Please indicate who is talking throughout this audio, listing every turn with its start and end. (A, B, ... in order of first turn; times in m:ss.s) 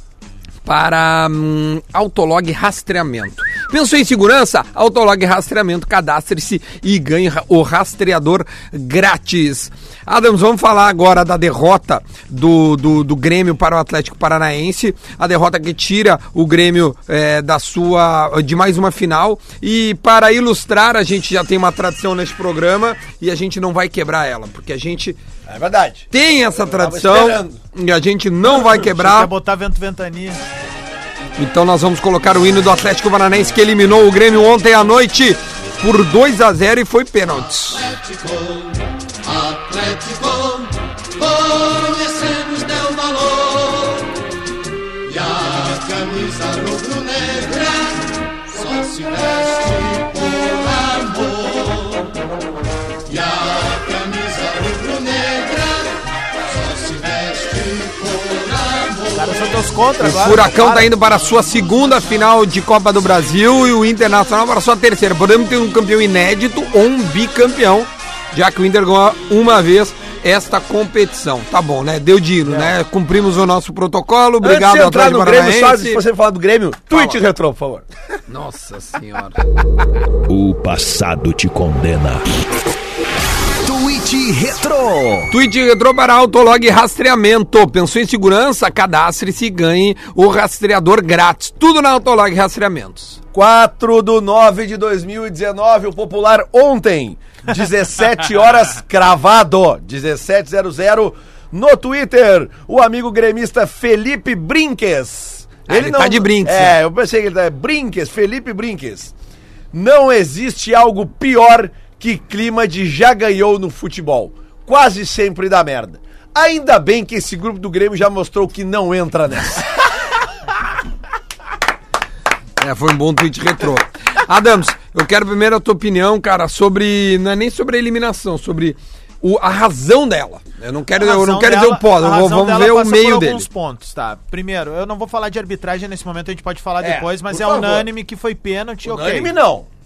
0:00.6-0:25.2 A
0:25.5-0:27.6 B
0:26.1-0:29.3 A
0:28.8-0:30.4 C
0:31.4-0:37.9 A
0:39.6-0:40.1 D
0:41.8-0:43.0 D
0:45.7-0:47.6 D
0:48.8-0:50.0 D
0:54.1-0:55.2 D
0:59.1-1:00.9 C
1:00.0-1:16.0 A
1:14.4-1:17.9 B
1:16.9-1:17.2 A
1:18.3-1:19.4 A
1:20.3-1:22.2 E
1:23.6-1:25.3 E
1:25.3-1:33.2 A
1:33.3-1:49.1 B
1:45.7-1:46.8 A
1:49.7-1:59.7 B
2:02.6-2:13.5 A
2:11.0-2:19.4 C
2:16.8-2:17.9 B
2:18.8-2:19.7 B